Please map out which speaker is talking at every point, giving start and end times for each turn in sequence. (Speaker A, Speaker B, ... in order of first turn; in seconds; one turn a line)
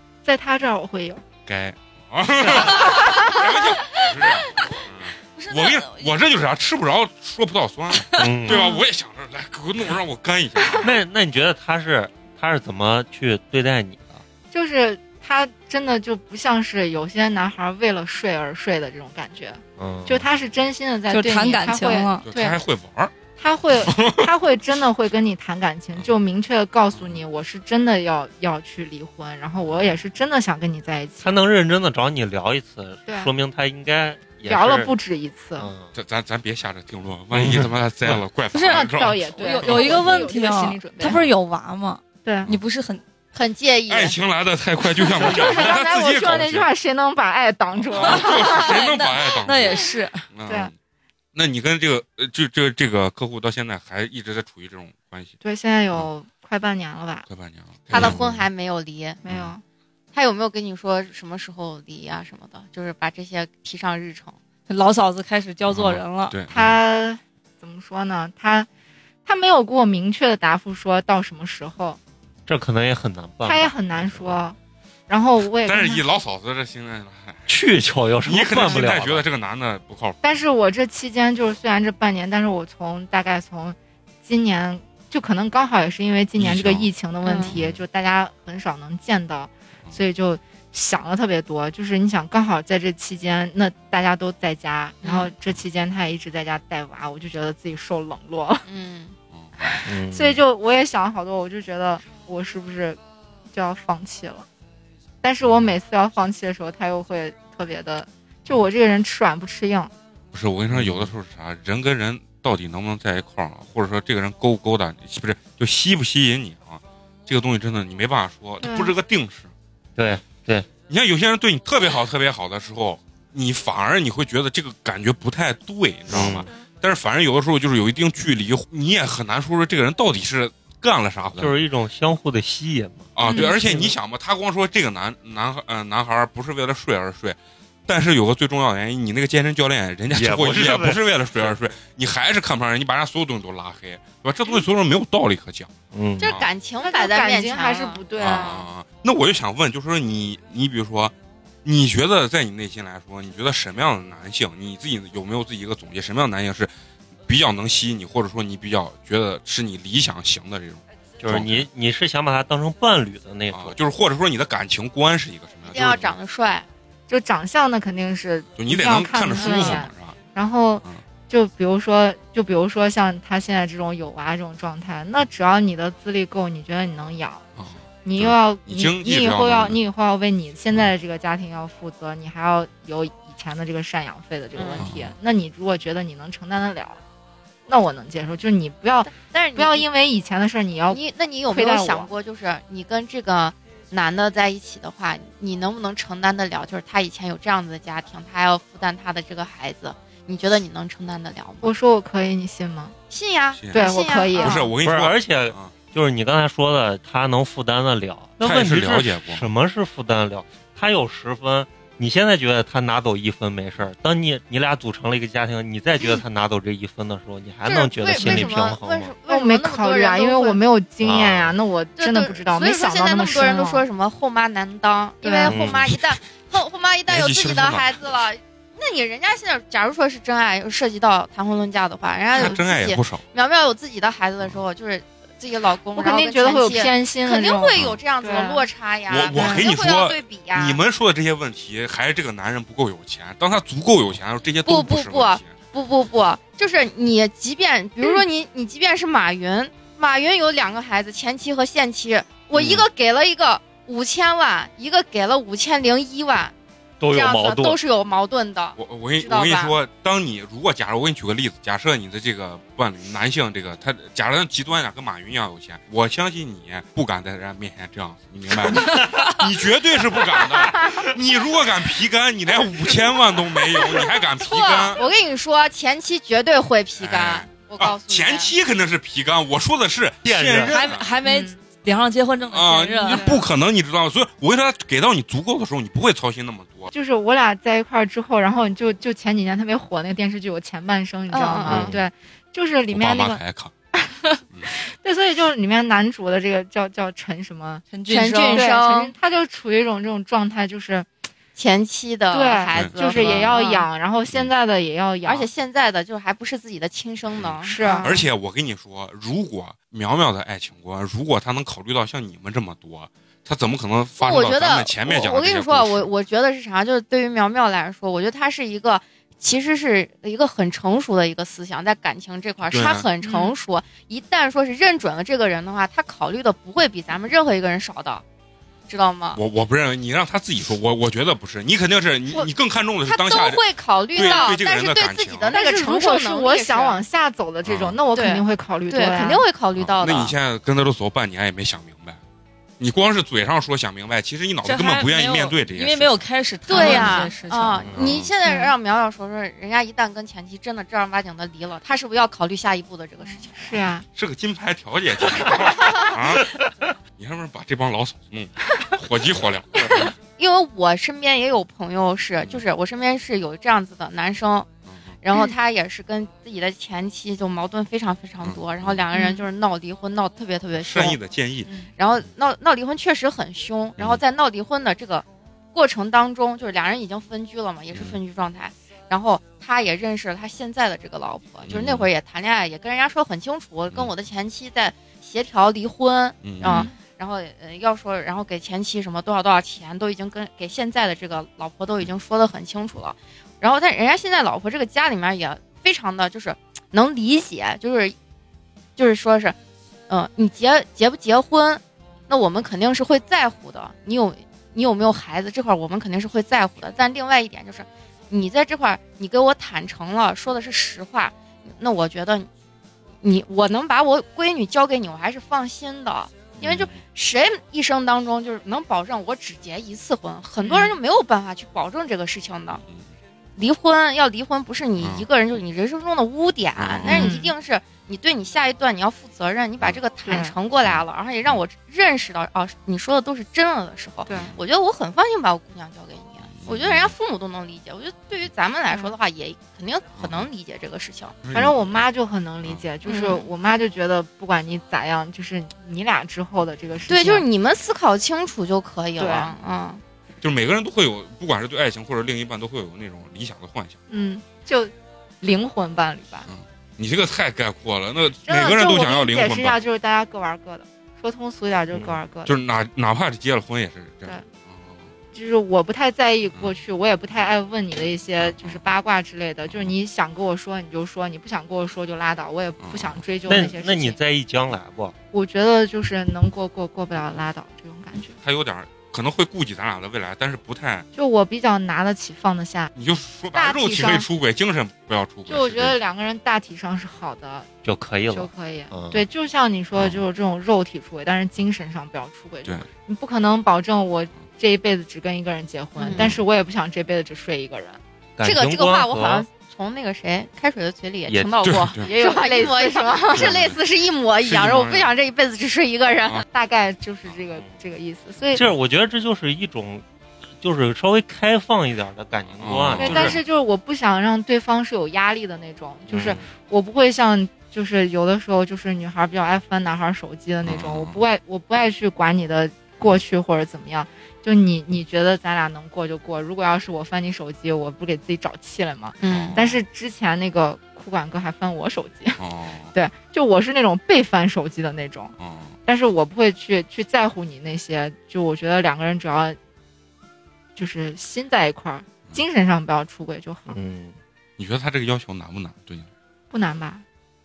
Speaker A: 0.2-1.2
Speaker B: 1.4-10.9
Speaker C: 3.9-4.8
Speaker C: 5.3-6.2
Speaker D: 8.2-8.6
Speaker A: 8.5-8.8
Speaker D: 10.8-14.2
Speaker A: 14.5-22.6
Speaker D: 19.8-20.2
Speaker C: 21.1-22.2
Speaker B: 22.2-23.1
Speaker A: 23.4-31.3
Speaker B: 23.8-24.3
Speaker D: 31.2-34.9
Speaker A: 33.0-33.3
Speaker A: 34.5-35.7
Speaker D: 35.6-35.9
Speaker B: 35.9-40.0
Speaker D: 37.3-38.2
Speaker C: 38.5-43.0
Speaker A: 38.7-41.2
Speaker A: 42.2-42.5
Speaker E: 43.3-44.2
Speaker B: 43.9-46.7
Speaker A: 45.2-48.7
Speaker B: 47.7-50.7
Speaker C: 48.0-50.2
Speaker A: 50.5-50.7
Speaker B: 51.3-55.3
Speaker A: 55.4-57.3
Speaker B: 57.3-58.5
Speaker E: 57.9-59.2
Speaker A: 59.2-59.6
Speaker B: 59.2-59.5
Speaker E: 60.1-64.4
Speaker C: 64.7-66.3
Speaker B: 65.7-66.8
Speaker A: 66.5-68.7
Speaker A: 69.2-72.0
Speaker D: 72.5-74.3
Speaker A: 73.4-74.6
Speaker A: 75.1-76.0
Speaker B: 75.6-77.5
Speaker D: 77.5-79.2
Speaker B: 78.2-80.2
Speaker A: 80.2-98.7
Speaker B: 86.4-86.9
Speaker E: 87.2-87.5
Speaker B: 87.5-87.8
Speaker E: 95.0-95.3
Speaker E: 98.7-99.2
Speaker B: 99.3-99.8
Speaker A: 99.6-103.0
Speaker D: 99.8-100.4
Speaker A: 103.5-104.5
Speaker A: 105.2-109.9
Speaker B: 110.3-119.5
Speaker D: 110.7-111.1
Speaker A: 118.6-118.9
Speaker D: 120.0-120.7
Speaker B: 120.9-131.6
Speaker D: 126.1-126.5
Speaker D: 131.4-133.9
Speaker B: 133.1-146.5
Speaker A: 133.2-133.5
Speaker D: 140.1-141.5
Speaker D: 145.9-146.4
Speaker E: 146.2-148.5
Speaker A: 146.8-148.6
Speaker B: 148.2-156.7
Speaker B: 157.3-161.7
Speaker D: 161.2-163.8
Speaker B: 163.5-166.2
Speaker E: 165.6-166.7
Speaker A: 167.1-177.4
Speaker B: 168.6-170.2
Speaker E: 169.4-169.7
Speaker B: 177.6-179.8
Speaker A: 178.0-187.0
Speaker E: 184.5-184.9
Speaker B: 184.8-185.1
Speaker A: 187.7-192.1
Speaker E: 189.1-189.8
Speaker E: 190.9-201.7
Speaker A: 201.6-202.9
Speaker E: 203.1-204.7
Speaker B: 203.6-205.7
Speaker A: 203.7-204.7
Speaker D: 204.8-219.1
Speaker B: 208.4-209.5
Speaker E: 217.6-220.6
Speaker A: 219.3-223.8
Speaker D: 221.0-221.5
Speaker E: 222.0-240.8
Speaker A: 225.2-225.5
Speaker D: 225.4-225.9
Speaker B: 225.6-226.0
Speaker B: 227.1-227.9
Speaker B: 232.3-233.2
Speaker A: 235.9-238.7
Speaker B: 237.7-238.0
Speaker B: 239.1-245.6
Speaker A: 239.3-239.7
Speaker E: 244.6-256.5
Speaker B: 252.5-252.9
Speaker D: 257.0-257.8
Speaker E: 257.1-259.7
Speaker B: 258.8-275.0
Speaker E: 273.9-278.5
Speaker B: 277.0-281.1
Speaker D: 280.2-280.8
Speaker C: 280.6-283.3
Speaker A: 281.2-281.6
Speaker B: 282.5-286.9
Speaker A: 283.1-283.4
Speaker A: 286.9-293.4
Speaker E: 291.3-291.9
Speaker D: 291.7-291.9
Speaker B: 291.7-292.0
Speaker B: 292.9-293.7
Speaker A: 294.6-297.9
Speaker C: 297.9-298.6
Speaker E: 298.1-299.1
Speaker A: 298.5-301.1
Speaker E: 301.6-303.9
Speaker A: 302.3-305.5
Speaker B: 302.7-303.5
Speaker E: 305.2-308.2
Speaker B: 307.3-316.1
Speaker A: 307.6-308.1
Speaker E: 314.2-328.2
Speaker B: 322.7-323.1
Speaker A: 323.2-323.5
Speaker E: 328.9-329.4
Speaker B: 329.3-333.6
Speaker E: 333.0-337.0
Speaker B: 334.1-335.5
Speaker A: 334.2-334.5
Speaker A: 335.5-339.4
Speaker B: 337.6-338.0
Speaker E: 338.1-340.3
Speaker B: 339.8-342.2
Speaker B: 342.8-346.2
Speaker C: 344.6-347.9
Speaker E: 346.7-353.8
Speaker A: 346.7-347.2
Speaker B: 347.9-348.3
Speaker A: 348.4-348.7
Speaker A: 353.2-354.0
Speaker B: 354.1-356.6
Speaker E: 355.8-356.1
Speaker B: 357.2-360.1
Speaker E: 360.3-364.7
Speaker B: 364.9-365.1
Speaker E: 365.2-371.2
Speaker B: 368.4-369.1
Speaker A: 369.1-369.4
Speaker B: 370.8-371.7
Speaker E: 371.9-398.1
Speaker B: 377.9-378.2
Speaker B: 381.7-382.1
Speaker B: 386.4-386.9
Speaker A: 386.6-386.9
Speaker E: 399.0-399.6
Speaker E: 400.1-412.5
Speaker E: 413.2-422.8
Speaker B: 416.6-417.0
Speaker A: 420.6-421.0
Speaker B: 422.8-423.1
Speaker E: 423.6-441.4
Speaker B: 425.0-425.2
Speaker B: 426.8-427.3
Speaker A: 427.1-427.5
Speaker A: 430.2-430.5
Speaker B: 430.8-431.6
Speaker A: 434.3-434.5
Speaker B: 434.3-434.6
Speaker B: 436.5-437.1
Speaker B: 440.2-440.5
Speaker B: 441.4-442.0
Speaker A: 441.5-447.4
Speaker E: 443.0-443.5
Speaker E: 447.1-450.0
Speaker A: 449.2-449.5
Speaker B: 450.4-454.0
Speaker A: 454.1-456.5
Speaker B: 456.5-459.8
Speaker A: 458.4-462.6
Speaker D: 461.9-462.2
Speaker B: 462.4-465.1
Speaker A: 465.3-474.2
Speaker B: 468.4-468.8
Speaker B: 472.8-473.2
Speaker D: 473.4-475.1
Speaker A: 475.3-478.4
Speaker B: 478.4-481.1
Speaker A: 481.1-482.9
Speaker B: 482.9-486.0
Speaker A: 483.5-484.3
Speaker A: 485.5-487.7
Speaker D: 487.8-489.2
Speaker A: 488.3-498.0
Speaker B: 489.9-490.2
Speaker E: 496.0-496.3
Speaker B: 496.1-496.4
Speaker D: 498.4-499.4
Speaker E: 498.4-506.4
Speaker D: 501.3-501.5
Speaker B: 501.6-502.1
Speaker A: 502.1-503.6
Speaker B: 503.3-503.8
Speaker B: 504.4-505.1
Speaker A: 506.5-508.7
Speaker D: 508.5-510.0
Speaker D: 510.6-513.4
Speaker B: 512.5-513.4
Speaker A: 513.0-532.4
Speaker D: 516.1-516.5
Speaker B: 520.6-521.2
Speaker E: 529.2-529.6
Speaker B: 529.3-529.8
Speaker B: 532.4-532.9
Speaker A: 532.9-535.3
Speaker B: 535.4-535.7
Speaker A: 535.9-539.6
Speaker A: 540.8-543.8
Speaker D: 543.7-544.1
Speaker B: 544.6-546.1
Speaker A: 546.5-547.0